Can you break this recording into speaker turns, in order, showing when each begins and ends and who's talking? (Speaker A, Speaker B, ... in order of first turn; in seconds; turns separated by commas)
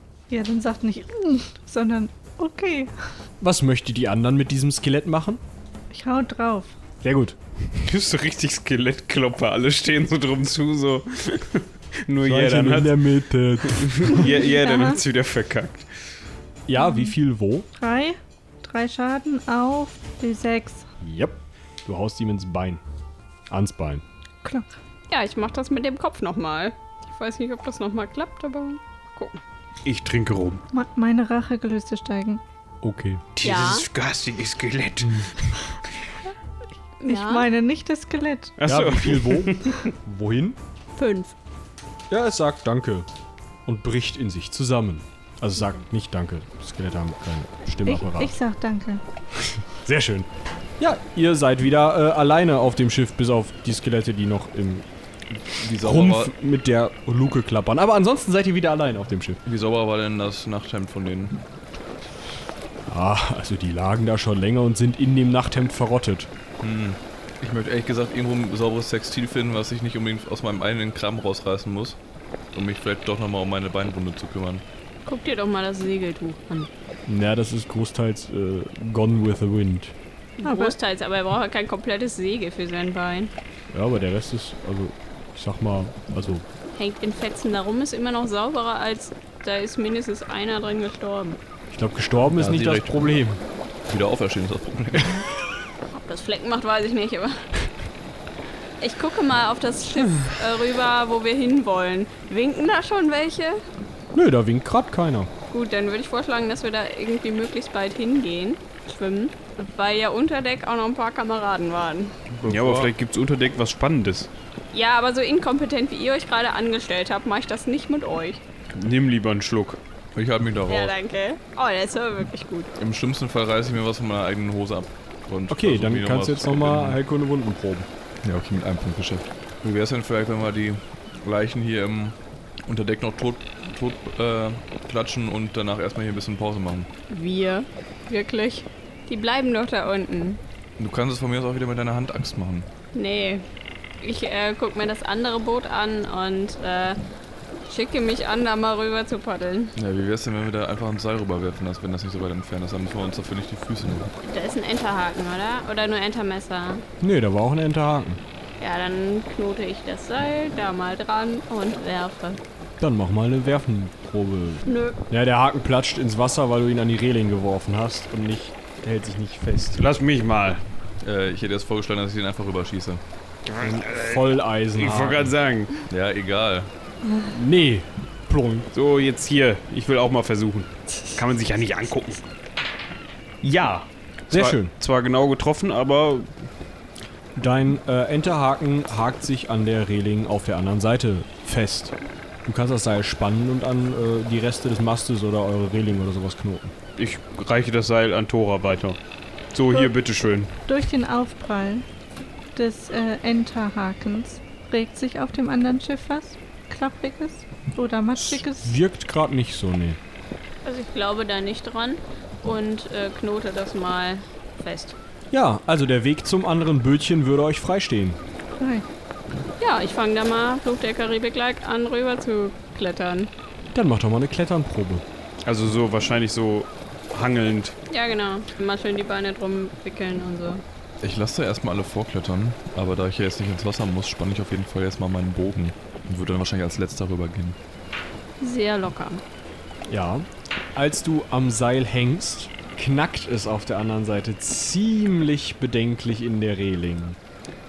Speaker A: 0.3-2.9, Speaker B: 3.4-5.4, Speaker A: 5.9-6.8, Speaker B: 7.0-7.4, Speaker C: 7.8-13.1, Speaker B: 12.2-14.3, Speaker C: 13.6-15.9, Speaker A: 14.6-15.0, Speaker B: 16.7-17.7, Speaker A: 16.8-17.1, Speaker A: 17.8-20.9, Speaker B: 21.0-22.8, Speaker B: 23.5-24.0, Speaker A: 24.4-24.7, Speaker D: 25.1-29.4, Speaker C: 29.8-30.6, Speaker A: 30.7-32.4, Speaker B: 32.8-33.2, Speaker C: 33.4-35.5, Speaker D: 33.4-33.9, Speaker D: 37.0-37.4, Speaker A: 37.1-38.6, Speaker C: 38.6-39.9, Speaker B: 38.6-40.6, Speaker D: 40.9-41.3, Speaker B: 42.1-43.1, Speaker B: 43.6-48.3, Speaker A: 47.8-49.0, Speaker B: 49.8-50.3, Speaker B: 50.8-54.9, Speaker E: 55.3-56.3, Speaker B: 55.8-59.4, Speaker E: 59.5-61.4, Speaker B: 62.9-66.3, Speaker E: 66.6-72.0, Speaker E: 72.5-74.6, Speaker D: 75.1-76.7, Speaker B: 77.1-79.9, Speaker D: 80.4-83.3, Speaker A: 80.4-80.8, Speaker B: 83.7-86.4, Speaker D: 86.8-91.4, Speaker B: 91.7-93.4, Speaker E: 92.3-93.1, Speaker E: 93.9-95.3, Speaker D: 95.9-97.4, Speaker D: 98.8-103.6, Speaker B: 104.1-105.3, Speaker D: 105.5-112.1, Speaker E: 112.4-112.9, Speaker C: 112.4-114.3, Speaker D: 114.7-118.4, Speaker C: 118.7-119.8, Speaker E: 120.1-120.9, Speaker D: 120.7-122.7, Speaker E: 122.8-127.0, Speaker B: 125.5-127.9, Speaker E: 128.2-132.1, Speaker E: 132.7-136.9, Speaker D: 137.1-140.4, Speaker E: 140.8-142.7, Speaker D: 142.9-143.4, Speaker D: 144.0-147.0, Speaker D: 147.7-149.8, Speaker E: 149.8-154.1, Speaker D: 154.2-156.8, Speaker B: 157.0-158.2, Speaker D: 158.6-162.4, Speaker B: 162.8-169.8, Speaker D: 164.7-165.0, Speaker C: 169.8-170.6, Speaker E: 171.0-173.0, Speaker B: 173.6-175.3, Speaker C: 174.8-175.7, Speaker E: 175.9-176.7, Speaker B: 177.3-178.7, Speaker C: 178.7-182.2, Speaker C: 183.4-186.4, Speaker B: 184.3-184.7, Speaker B: 187.4-196.8, Speaker C: 197.0-199.0, Speaker C: 199.5-200.5, Speaker A: 200.7-201.9, Speaker A: 202.5-208.7, Speaker B: 208.2-210.0, Speaker D: 210.6-214.9, Speaker B: 215.3-218.2, Speaker A: 218.6-218.9, Speaker D: 219.6-223.3, Speaker B: 223.7-225.0, Speaker C: 225.4-227.8, Speaker D: 227.9-230.6, Speaker E: 231.0-237.6, Speaker D: 238.4-239.2, Speaker B: 239.9-247.2